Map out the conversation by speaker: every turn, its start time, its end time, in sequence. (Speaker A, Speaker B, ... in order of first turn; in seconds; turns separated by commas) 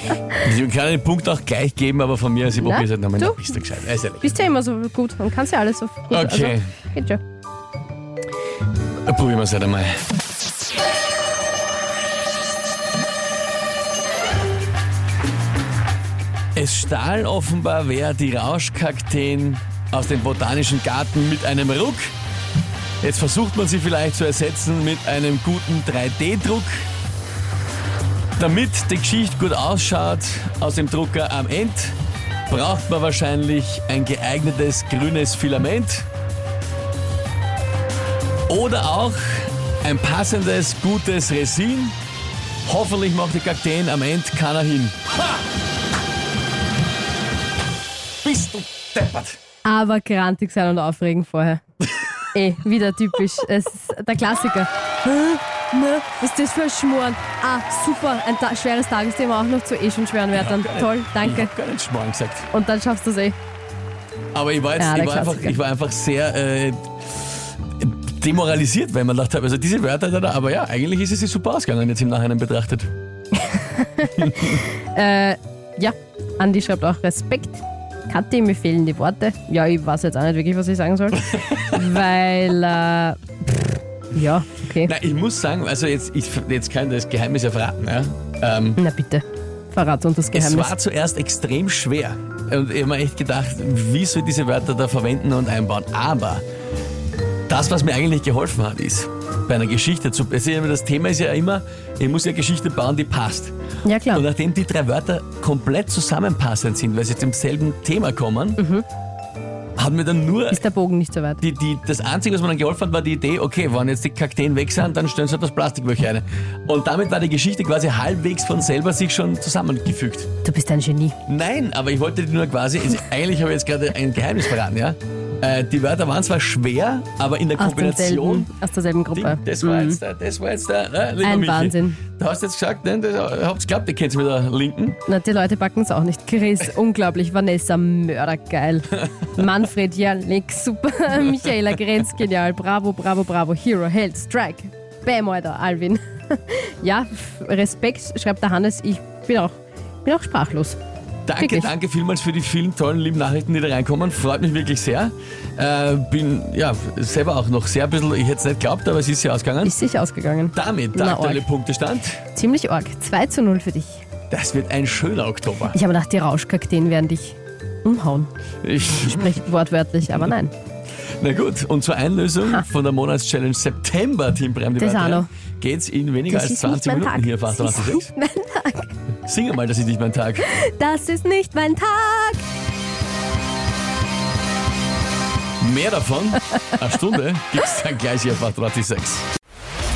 Speaker A: 0.4-4.3, Speaker B: 2.5-7.2, Speaker A: 6.1-6.6, Speaker A: 9.0-10.0, Speaker A: 16.5-22.1, Speaker A: 23.0-26.8, Speaker A: 28.4-31.9, Speaker A: 32.5-36.1, Speaker A: 38.5-41.9, Speaker A: 42.6-45.1, Speaker A: 48.2-49.4, Speaker B: 49.6-51.6, Speaker B: 52.3-61.5, Speaker A: 60.3-62.5, Speaker B: 62.5-63.4, Speaker A: 64.3-72.9, Speaker B: 64.8-65.6, Speaker B: 73.3-83.2, Speaker A: 74.2-74.6, Speaker A: 81.2-81.8, Speaker B: 84.1-84.9, Speaker A: 84.8-88.8, Speaker B: 88.8-90.7, Speaker A: 90.3-96.4, Speaker A: 97.5-103.5, Speaker B: 103.8-104.2, Speaker A: 104.1-108.6, Speaker B: 108.6-108.8, Speaker A: 109.8-110.6, Speaker B: 110.5-111.4, Speaker A: 111.4-120.3, Speaker B: 120.4-121.2, Speaker A: 121.2-128.5, Speaker B: 127.6-130.0, Speaker A: 129.1-135.0, Speaker B: 131.2-132.0, Speaker B: 135.1-150.8, Speaker A: 151.2-159.8, Speaker B: 151.4-151.7, Speaker B: 159.6-161.4, Speaker A: 160.5-162.2, Speaker B: 162.3-164.0, Speaker A: 164.3-165.8, Speaker B: 165.7-168.3, Speaker A: 168.6-169.4, Speaker B: 169.1-170.5, Speaker A: 171.2-178.1, Speaker B: 174.8-175.3, Speaker B: 176.3-178.9, Speaker A: 179.2-180.5, Speaker B: 180.4-182.4, Speaker A: 185.6-189.2